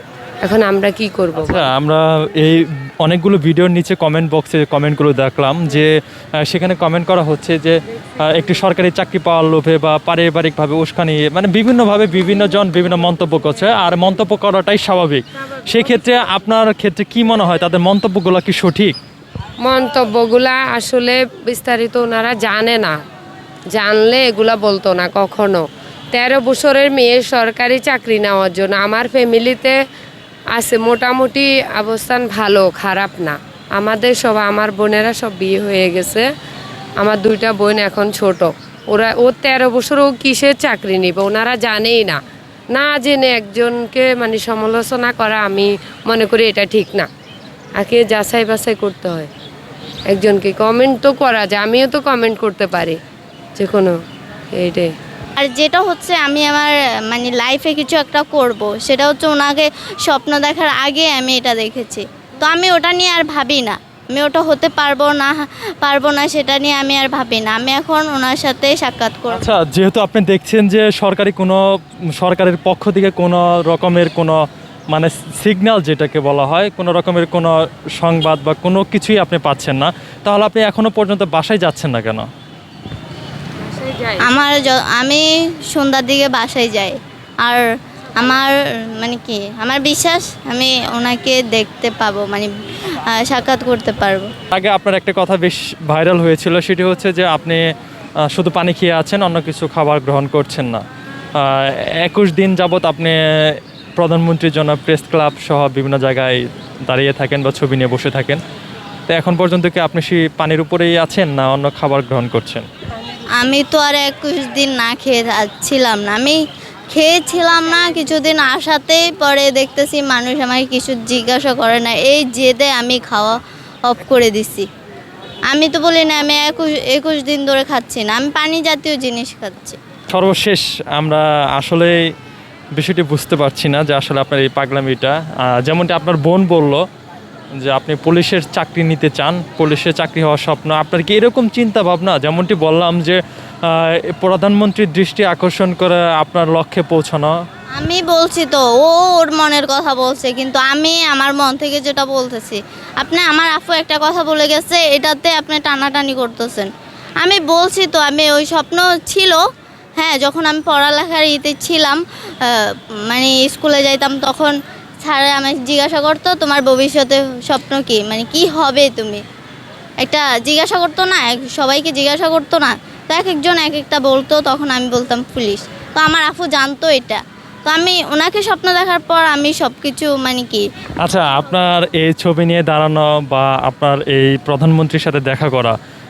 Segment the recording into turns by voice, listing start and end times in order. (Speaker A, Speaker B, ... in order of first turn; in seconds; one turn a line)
Speaker A: 0.4-1.7
Speaker B: 1.4-19.0
Speaker A: 19.6-23.0
Speaker A: 23.7-29.8
Speaker A: 30.5-36.3
Speaker A: 37.0-42.2
Speaker A: 42.7-47.1
Speaker A: 47.8-49.3
Speaker A: 50.1-53.0
Speaker A: 53.6-54.0
Speaker A: 54.5-54.9
Speaker C: 55.4-69.5
Speaker B: 69.3-71.6
Speaker B: 72.2-74.4
Speaker B: 74.9-82.3
Speaker A: 83.6-84.3
Speaker C: 84.2-87.6
Speaker C: 88.2-94.3
Speaker B: 94.5-97.6
Speaker B: 98.2-100.8
Speaker B: 101.4-108.4
Speaker B: 109.1-112.7
Speaker C: 113.4-116.4
Speaker C: 116.9-124.7
Speaker C: 125.5-129.8
Speaker B: 130.1-132.0
Speaker B: 132.7-136.8
Speaker B: 137.6-147.4
Speaker C: 147.8-156.7
Speaker C: 157.2-159.4
Speaker C: 160.0-169.2
Speaker C: 170.0-180.7
Speaker B: 181.0-185.8